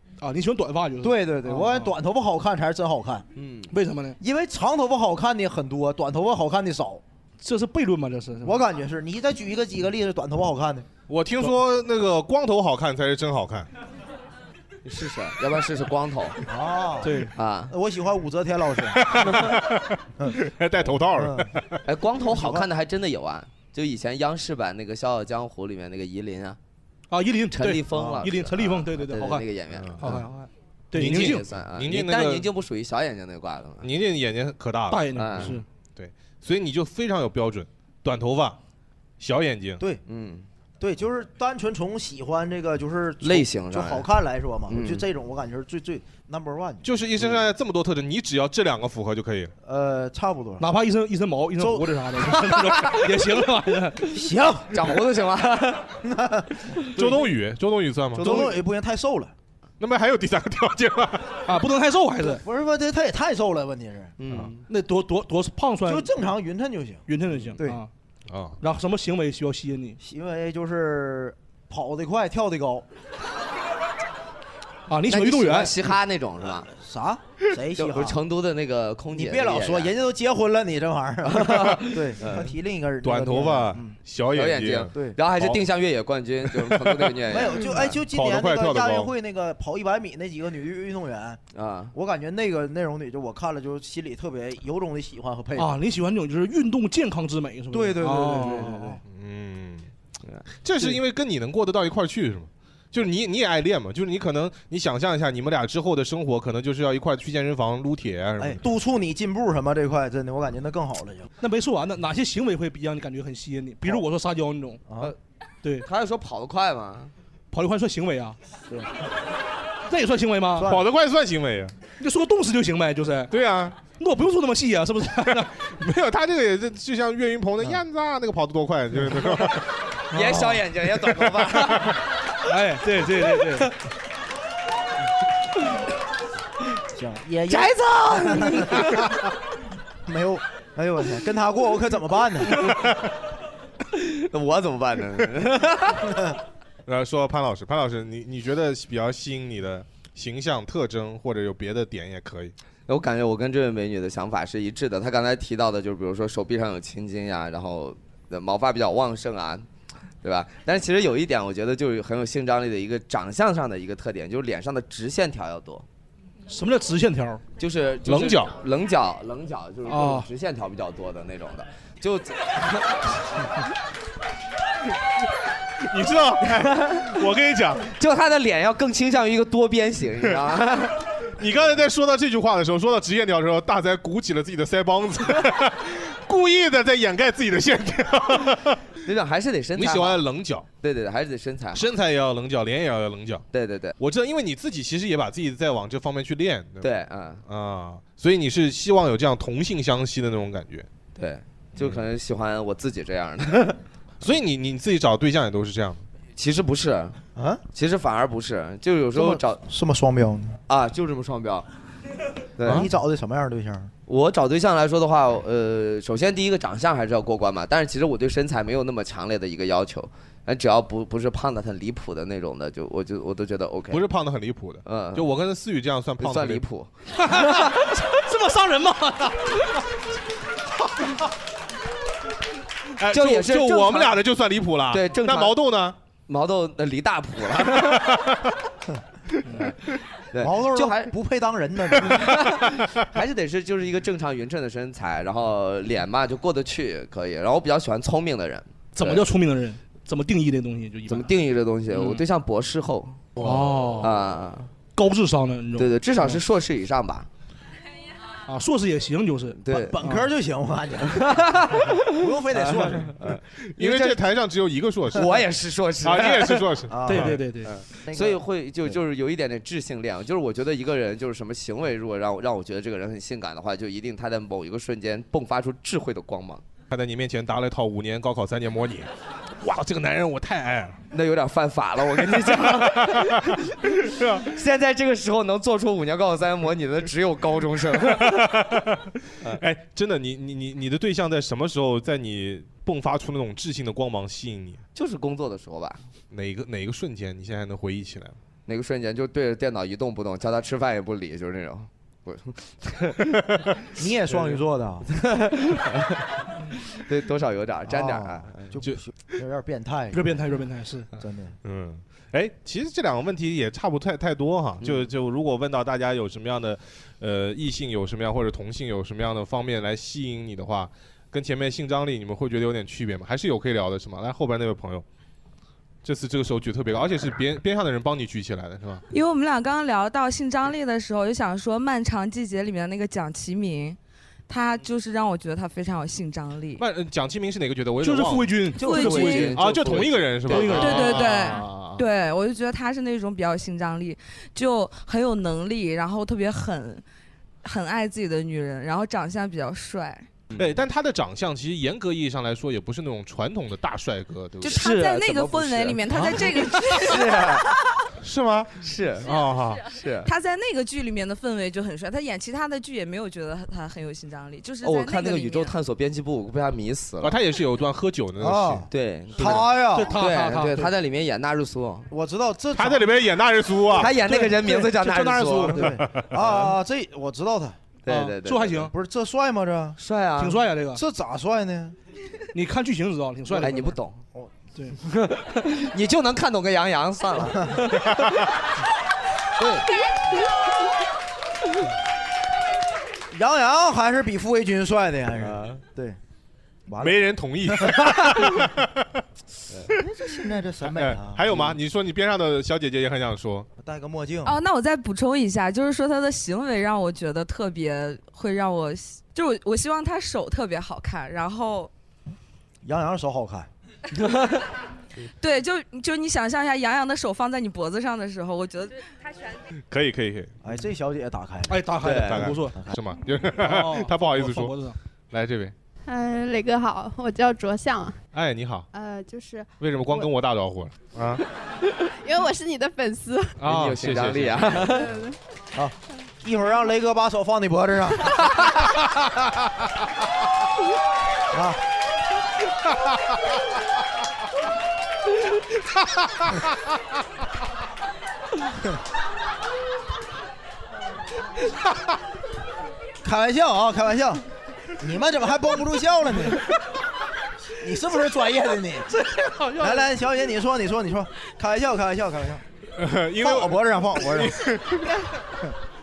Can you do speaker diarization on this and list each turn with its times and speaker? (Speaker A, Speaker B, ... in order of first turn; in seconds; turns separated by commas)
Speaker A: 0.2-1.9, Speaker B: 1.0-3.2, Speaker C: 3.4-3.7, Speaker A: 3.7-4.2, Speaker B: 4.2-7.0, Speaker A: 7.4-8.6, Speaker B: 8.4-10.9, Speaker D: 11.1-13.7, Speaker C: 14.8-16.4, Speaker B: 16.5-19.0, Speaker A: 17.0-17.3, Speaker C: 17.3-17.7, Speaker D: 19.0-21.8, Speaker B: 21.1-21.5, Speaker C: 21.9-26.6, Speaker B: 22.3-22.6, Speaker A: 27.1-29.4, Speaker C: 27.5-30.2, Speaker D: 29.7-30.2, Speaker A: 30.0-31.4, Speaker D: 30.9-32.5, Speaker C: 30.9-33.9, Speaker D: 33.8-38.6, Speaker A: 34.9-35.6, Speaker C: 35.1-35.5, Speaker D: 39.2-39.8, Speaker C: 40.0-40.5, Speaker B: 40.8-46.9, Speaker C: 43.2-44.1, Speaker C: 44.7-45.0, Speaker D: 46.9-49.5, Speaker B: 49.6-50.7, Speaker A: 50.6-54.1, Speaker B: 51.6-51.9, Speaker B: 54.1-54.9, Speaker C: 54.7-56.0, Speaker B: 56.0-57.2, Speaker D: 56.9-58.3, Speaker C: 58.1-58.5, Speaker B: 58.2-59.3, Speaker D: 59.8-61.4, Speaker A: 61.4-62.4, Speaker B: 62.2-64.1, Speaker C: 64.2-64.6, Speaker A: 64.7-66.1, Speaker B: 65.9-67.0, Speaker A: 67.1-67.9, Speaker D: 68.3-68.6, Speaker A: 68.6-70.0, Speaker B: 70.0-72.9, Speaker A: 74.9-75.7, Speaker C: 75.1-76.7, Speaker B: 76.8-78.2, Speaker C: 77.7-79.9, Speaker B: 79.1-84.0, Speaker C: 81.2-82.5, Speaker D: 83.0-85.6, Speaker C: 84.3-88.0, Speaker D: 86.6-87.1, Speaker B: 87.3-91.4, Speaker D: 88.1-89.1, Speaker C: 91.5-91.9, Speaker B: 91.9-95.7, Speaker A: 95.5-99.0, Speaker B: 97.7-99.0, Speaker D: 99.1-99.9, Speaker D: 100.6-108.6, Speaker B: 108.4-111.3, Speaker A: 111.4-114.8, Speaker B: 114.9-115.1, Speaker A: 115.6-115.9, Speaker C: 115.8-117.1, Speaker A: 117.5-118.4, Speaker A: 119.9-120.8, Speaker B: 120.6-120.8, Speaker D: 120.6-121.7, Speaker A: 122.0-123.3, Speaker D: 123.3-123.9, Speaker A: 123.9-125.7, Speaker D: 125.7-129.7, Speaker C: 130.1-131.9, Speaker A: 130.1-130.6, Speaker D: 131.5-131.9, Speaker A: 132.5-133.7, Speaker B: 136.9-139.0, Speaker C: 137.5-139.0, Speaker E: 138.0-138.4, Speaker B: 140.1-142.7, Speaker C: 143.9-146.2, Speaker D: 146.9-152.5, Speaker C: 152.9-159.7, Speaker C: 160.2-165.8, Speaker A: 166.5-167.4, Speaker C: 167.6-173.2, Speaker D: 168.0-168.6, Speaker A: 169.9-170.3, Speaker D: 175.8-177.9, Speaker C: 177.9-181.0, Speaker D: 181.4-188.8, Speaker C: 189.0-190.2, Speaker D: 189.7-190.7, Speaker C: 190.8-191.9, Speaker D: 191.7-193.4, Speaker C: 193.5-193.9, Speaker D: 194.0-196.9, Speaker C: 196.8-197.4, Speaker D: 197.4-200.9, Speaker C: 201.2-203.8, Speaker D: 204.2-206.0, Speaker C: 206.4-207.2, Speaker B: 207.4-207.6, Speaker C: 207.7-209.6, Speaker B: 209.1-210.6, Speaker C: 210.7-211.7, Speaker C: 212.6-212.9, Speaker B: 212.7-213.9, Speaker C: 214.1-224.1, Speaker D: 223.9-226.6, Speaker C: 224.9-225.3, Speaker C: 226.2-226.9, Speaker A: 227.2-229.8, Speaker D: 233.0-235.9, Speaker C: 233.1-234.2, Speaker C: 234.9-235.6, Speaker C: 236.3-238.3, Speaker D: 237.8-238.5, Speaker A: 239.5-239.7, Speaker C: 240.3-241.1, Speaker B: 240.4-242.3, Speaker C: 242.0-249.2, Speaker A: 248.9-251.3, Speaker C: 251.1-254.7, Speaker A: 251.9-252.2, Speaker A: 253.4-254.1, Speaker A: 254.9-256.4, Speaker C: 255.8-257.3, Speaker A: 258.5-260.3, Speaker C: 259.6-260.0, Speaker B: 259.7-263.1, Speaker C: 261.1-262.0, Speaker C: 262.5-263.4, Speaker D: 263.6-265.3, Speaker B: 263.8-264.1, Speaker C: 265.1-266.7, Speaker D: 266.0-267.3, Speaker B: 266.9-267.4, Speaker A: 267.1-267.7, Speaker C: 267.6-276.6, Speaker B: 268.1-268.4, Speaker D: 276.9-281.0, Speaker C: 281.1-288.5, Speaker D: 282.3-284.5, Speaker D: 288.0-294.8, Speaker C: 294.9-296.1, Speaker D: 296.3-298.4, Speaker C: 298.7-303.2, Speaker D: 303.3-303.6, Speaker B: 304.0-305.1, Speaker C: 305.1-306.2, Speaker C: 306.9-308.7, Speaker B: 307.9-310.4, Speaker A: 310.1-311.1, Speaker B: 311.2-311.6, Speaker D: 311.6-325.1, Speaker C: 314.8-315.1, Speaker D: 326.0-329.1, Speaker E: 329.1-334.0, Speaker E: 334.5-336.8, Speaker D: 336.8-342.0, Speaker A: 338.0-341.6, Speaker E: 338.8-339.4, Speaker C: 338.9-341.3, Speaker E: 340.7-347.0, Speaker E: 347.6-350.3, Speaker C: 350.5-350.8, Speaker D: 350.5-354.9, Speaker C: 354.6-357.7, Speaker E: 354.6-357.6, Speaker D: 358.2-359.9, Speaker C: 358.8-360.3, Speaker E: 360.2-365.8, Speaker C: 364.8-367.4, Speaker D: 367.2-368.9, Speaker B: 368.4-370.1, Speaker C: 368.9-372.1, Speaker A: 369.4-370.9, Speaker B: 372.1-373.1, Speaker D: 372.8-374.1, Speaker C: 373.9-376.7, Speaker A: 374.0-376.0, Speaker B: 375.7-377.8, Speaker D: 376.0-376.3, Speaker C: 378.0-378.8, Speaker A: 378.1-378.9, Speaker B: 378.9-380.0, Speaker C: 380.0-380.6, Speaker A: 380.4-381.0, Speaker B: 380.9-382.0, Speaker A: 382.5-383.9, Speaker C: 383.5-384.2, Speaker C: 385.1-388.3, Speaker B: 389.6-389.8, Speaker B: 393.3-396.2, Speaker C: 395.4-395.8, Speaker B: 396.9-398.4, Speaker D: 397.0-399.2, Speaker B: 399.9-401.7, Speaker D: 400.8-403.7, Speaker B: 403.8-404.5, Speaker E: 404.4-411.9, Speaker B: 412.8-413.7, Speaker E: 415.3-419.1, Speaker D: 419.9-420.6, Speaker B: 420.6-421.8, Speaker A: 421.7-422.8, Speaker C: 422.0-422.5, Speaker D: 422.2-424.8, Speaker A: 423.6-424.9, Speaker D: 425.3-425.7, Speaker F: 426.1-428.2, Speaker D: 428.3-428.9, Speaker F: 428.9-430.3, Speaker D: 429.8-431.4, Speaker F: 432.1-433.6, Speaker D: 433.6-434.8, Speaker C: 433.6-435.1, Speaker F: 435.0-435.4, Speaker B: 435.7-438.4, Speaker B: 441.5-441.8, Speaker B: 453.2-454.4, Speaker B: 455.0-456.6, Speaker B: 457.8-459.1, Speaker A: 459.3-460.1, Speaker B: 459.8-462.6, Speaker D: 462.9-465.1, Speaker B: 463.4-464.7